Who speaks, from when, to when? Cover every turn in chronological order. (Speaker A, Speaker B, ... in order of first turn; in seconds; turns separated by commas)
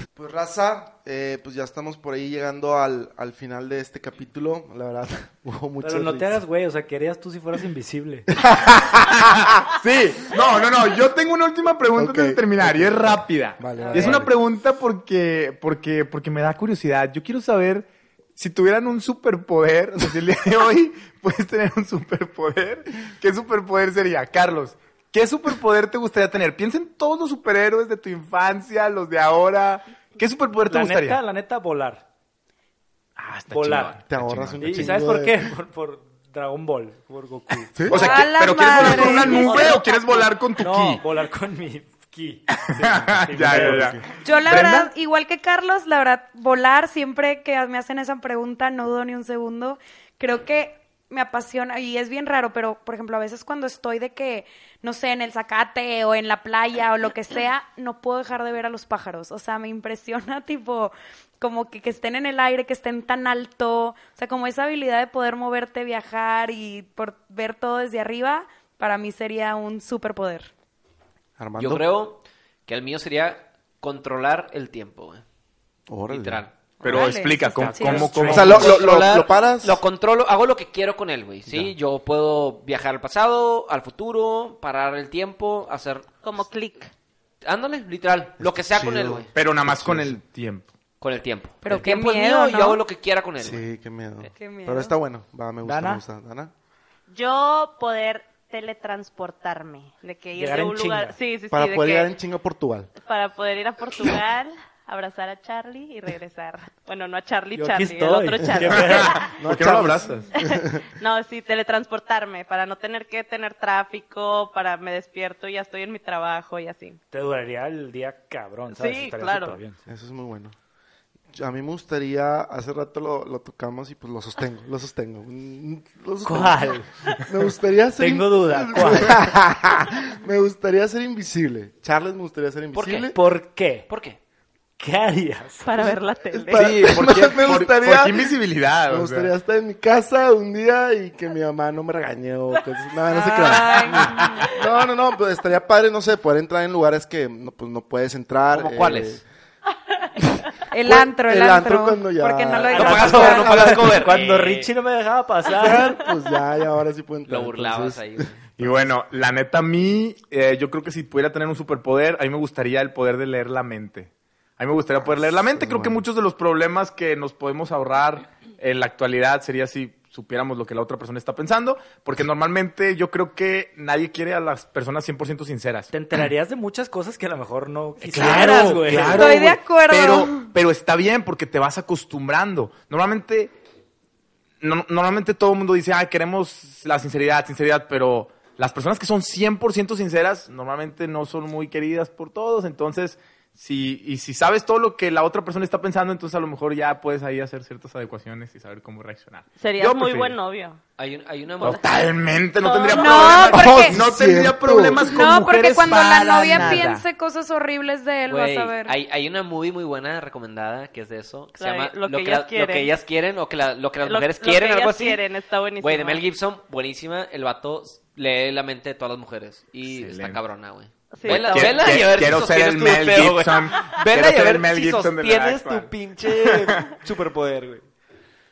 Speaker A: 0.1-6.4, Speaker B: 5.8-8.3, Speaker A: 8.4-9.2, Speaker C: 8.9-31.2, Speaker A: 11.9-14.3, Speaker D: 13.8-14.1, Speaker B: 30.7-32.0, Speaker C: 33.2-35.0, Speaker B: 33.5-34.0, Speaker A: 34.0-35.5, Speaker B: 34.6-38.2, Speaker A: 37.7-38.0, Speaker C: 37.8-41.0, Speaker D: 37.9-39.8, Speaker B: 38.8-39.8, Speaker E: 38.8-39.7, Speaker B: 40.6-44.0, Speaker C: 42.5-44.9, Speaker A: 43.4-44.0, Speaker D: 44.2-70.5, Speaker A: 71.4-71.8, Speaker F: 71.6-75.2, Speaker A: 75.9-76.4, Speaker F: 76.1-76.5, Speaker D: 76.8-78.1, Speaker C: 76.8-79.0, Speaker B: 76.9-78.6, Speaker F: 78.1-86.1, Speaker A: 78.3-79.8, Speaker A: 81.5-81.7, Speaker E: 86.2-86.9, Speaker F: 87.4-89.3, Speaker A: 88.4-90.2, Speaker C: 89.3-90.7, Speaker F: 91.0-93.7, Speaker D: 91.6-92.8, Speaker A: 93.4-96.5, Speaker D: 94.3-94.9, Speaker B: 95.6-96.0, Speaker E: 97.1-102.1, Speaker B: 100.4-101.2, Speaker A: 101.5-102.9, Speaker E: 103.0-109.3, Speaker B: 107.5-109.4, Speaker C: 108.7-110.3, Speaker A: 109.4-110.8, Speaker E: 110.4-117.0, Speaker B: 117.1-119.8, Speaker E: 118.7-119.6, Speaker A: 119.9-120.5, Speaker A: 121.3-133.2, Speaker B: 126.2-126.9, Speaker B: 128.0-129.2, Speaker F: 132.7-133.1, Speaker B: 133.1-133.9, Speaker F: 133.9-134.2, Speaker B: 134.8-135.7, Speaker E: 135.6-137.1, Speaker A: 136.3-138.3, Speaker C: 136.5-139.3, Speaker A: 138.9-149.2, Speaker D: 143.1-144.5, Speaker F: 148.5-149.2, Speaker A: 150.2-154.0, Speaker D: 150.7-153.6, Speaker F: 152.7-154.7, Speaker B: 152.7-156.0, Speaker A: 155.6-158.7, Speaker F: 157.3-158.4, Speaker C: 158.6-175.9, Speaker A: 164.9-166.0, Speaker B: 175.9-179.4, Speaker C: 178.0-183.5, Speaker D: 179.1-180.5, Speaker C: 184.6-200.3, Speaker E: 199.6-200.8, Speaker F: 201.0-202.1, Speaker C: 201.6-207.0, Speaker E: 202.6-203.5, Speaker D: 202.9-204.0, Speaker A: 203.5-205.0, Speaker D: 205.0-208.9, Speaker A: 206.6-206.8, Speaker F: 208.3-215.2, Speaker E: 211.6-212.9, Speaker E: 214.0-216.2, Speaker F: 215.8-227.8, Speaker C: 219.8-220.4, Speaker E: 221.1-222.0, Speaker C: 221.2-226.9